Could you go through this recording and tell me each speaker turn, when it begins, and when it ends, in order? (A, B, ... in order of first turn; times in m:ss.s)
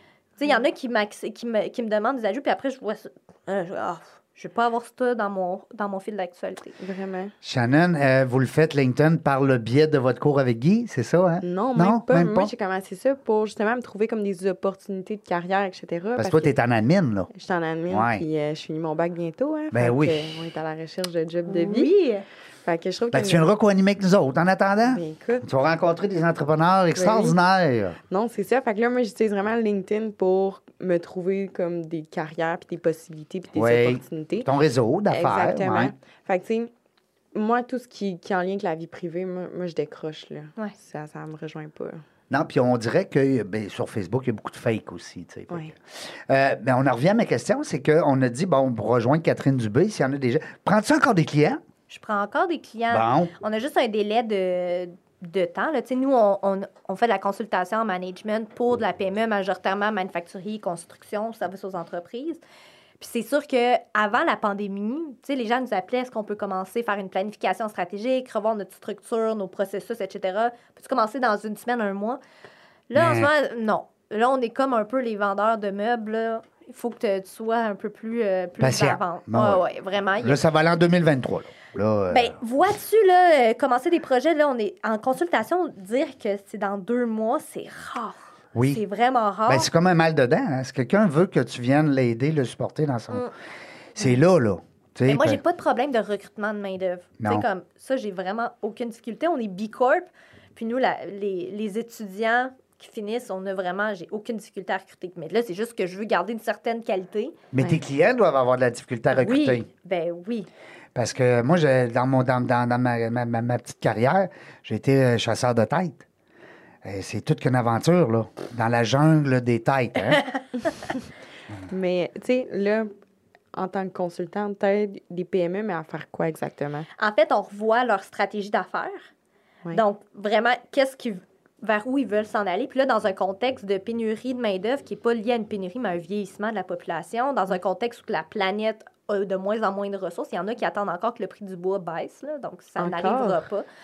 0:00.4-0:06.8 A
0:06.8-0:07.3 B
0:07.4-0:12.5 C
0:11.4-0:16.5 B
0:16.2-0:17.3 C
0:17.3-0:21.9 B
0:17.9-0:18.2 C
0:19.7-0:20.4 C
0:21.5-0:22.3 A
0:22.6-0:23.5 B
0:23.1-0:28.0 C
0:24.9-0:25.5 B
0:27.0-0:27.4 B
0:28.1-0:34.5 B
0:33.6-0:35.9 C
0:35.1-0:36.7 B
0:37.3-0:42.0 B
0:42.3-0:51.6 C
0:51.9-1:02.4 A
0:52.9-0:53.3 C
1:03.0-1:12.2 A
1:12.9-1:20.4 A
1:12.9-1:13.3 C
1:18.6-1:19.6 C
1:20.2-1:22.4 C
1:22.1-1:29.7 A
1:28.5-1:28.8 C
1:29.5-1:33.3 C
1:34.0-1:35.4 C
1:35.0-1:47.4 A
1:37.2-1:37.5 C
1:47.5-1:49.7 C
1:49.1-1:50.5 A
1:51.0-1:56.1 C
1:56.8-2:00.2 C
2:00.1-2:00.7 A
2:01.7-2:02.9 B
2:03.5-2:06.9 B
2:07.0-2:09.0 A
2:09.7-2:23.7 A
2:22.8-2:23.4 B